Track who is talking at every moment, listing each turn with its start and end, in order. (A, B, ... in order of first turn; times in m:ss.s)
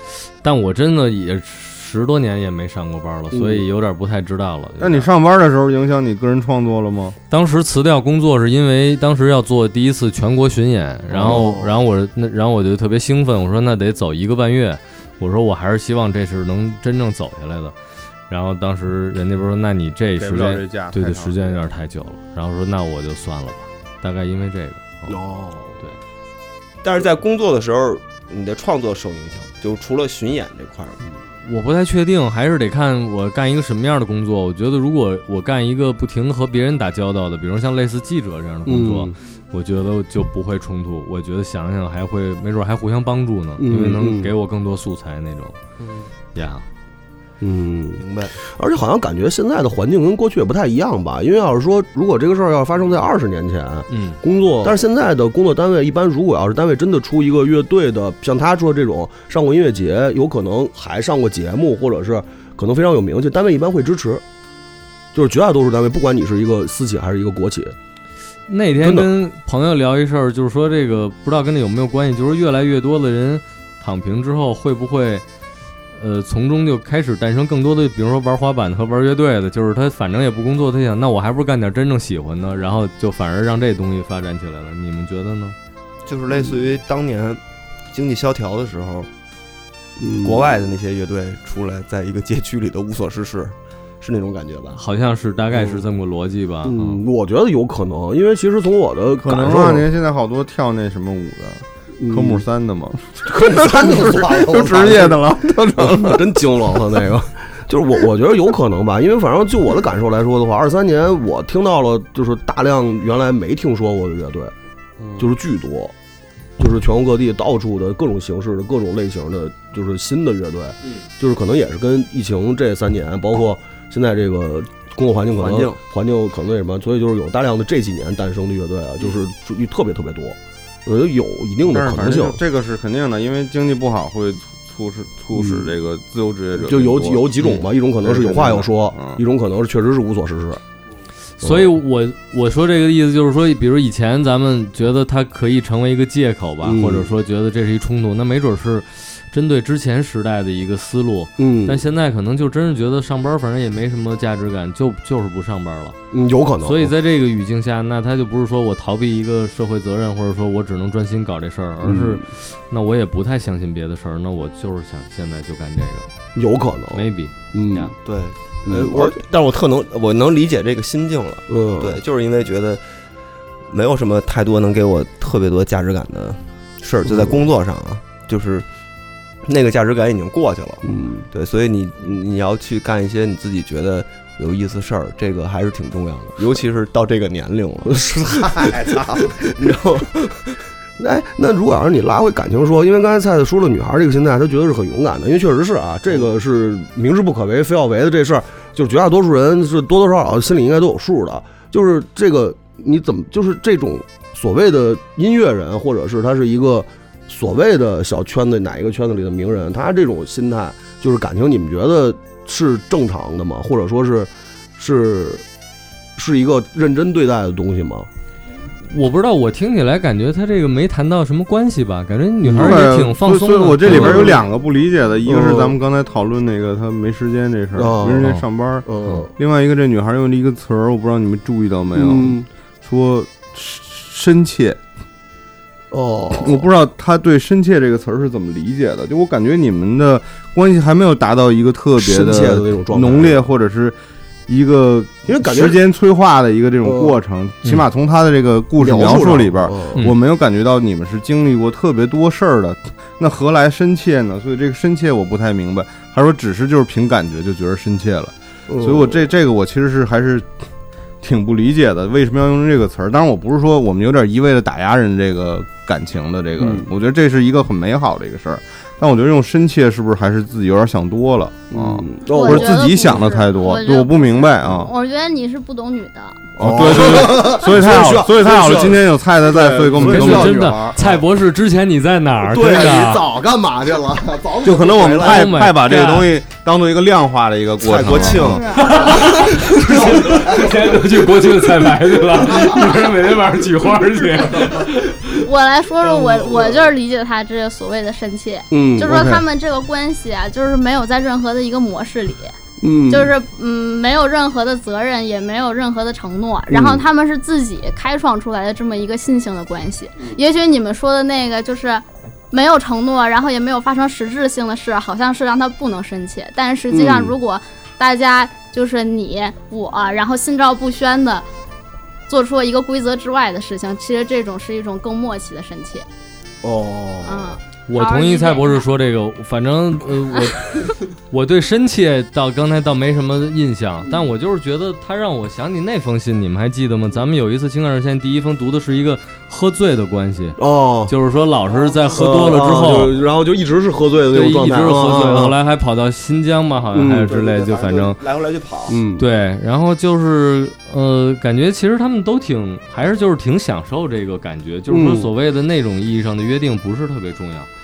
0:00.4-0:05.1 A
0:03.3-0:03.6 B
0:04.8-0:07.2 C
0:07.3-0:17.7 A
0:11.2-0:11.8 B
0:18.3-0:25.2 A
0:20.2-0:21.5 C
0:25.1-0:25.8 B
0:26.8-0:31.0 D
0:31.4-0:45.6 A
0:38.6-0:39.1 B
0:43.6-0:44.3 B
0:45.8-0:46.1 D
0:46.3-0:46.6 A
0:47.4-1:04.2 B
0:48.0-0:48.3 D
0:53.9-0:54.2 A
1:05.1-1:07.8 B
1:08.5-1:15.2 A
1:08.8-1:09.1 B
1:15.9-1:25.6 A
1:26.0-1:27.4 D
1:27.9-1:29.1 D
1:30.0-1:30.5 B
1:30.2-1:34.8 D
1:34.8-1:37.0 A
1:35.5-1:35.8 B
1:36.6-1:39.8 B
1:39.2-1:46.3 C
1:42.0-1:42.4 B
1:43.2-1:45.2 B
1:45.8-1:54.5 B
1:55.2-1:55.9 B
1:56.6-2:12.4 B
2:05.4-2:05.8 D
2:11.6-2:17.3 C
2:15.3-2:15.7 B
2:16.6-2:20.6 B
2:18.0-2:19.2 C
2:21.4-2:36.0 A
2:21.4-2:21.7 B
2:26.6-2:27.1 B
2:31.4-2:31.8 B
2:36.1-2:36.9 B
2:36.6-2:46.1 A
2:41.8-2:42.2 B
2:46.3-2:47.9 B
2:46.9-2:47.9 A
2:48.0-2:52.8 D
2:48.6-2:49.2 B
2:51.5-2:52.0 B
2:53.7-2:58.6 D
2:57.0-2:57.4 B
2:59.4-3:10.6 D
3:00.8-3:01.3 B
3:07.8-3:09.4 B
3:11.0-3:35.4 B
3:36.2-3:38.1 B
3:38.9-3:44.4 A
3:42.4-3:42.9 B
3:42.5-3:54.8 C
3:43.8-3:44.4 B
3:45.2-3:45.8 B
3:47.7-3:49.3 B
3:51.9-3:52.5 B
3:55.9-3:56.7 B
3:56.4-4:04.0 C
4:02.0-4:03.4 B
4:04.5-4:20.5 C
4:05.3-4:05.8 B
4:06.8-4:07.1 B
4:08.8-4:10.1 B
4:18.7-4:19.2 B
4:21.2-4:34.9 C
4:26.6-4:26.9 B
4:31.7-4:32.8 B
4:32.3-4:36.4 E
4:36.6-4:41.0 C
4:36.6-4:41.1 B
4:40.0-4:43.2 A
4:42.4-4:45.6 B
4:44.6-4:48.6 C
4:45.2-4:46.3 A
4:47.8-4:48.6 D
4:48.4-4:48.9 E
4:48.8-4:55.4 A
4:49.1-4:50.7 B
4:55.4-5:02.5 E
4:56.2-4:56.7 B
4:58.7-4:59.4 B
5:02.8-5:03.3 B
5:03.1-5:21.4 E
5:06.7-5:07.0 B
5:16.9-5:17.4 B
5:22.3-5:26.0 E
5:26.6-5:27.6 B
5:27.2-5:28.8 E
5:27.9-5:43.2 A
5:40.6-5:41.1 B
5:42.1-5:45.6 B
5:44.3-5:48.2 A
5:46.9-5:47.3 B
5:47.3-5:49.0 D
5:48.9-5:49.2 B
5:49.2-5:57.7 A
5:54.9-5:55.3 B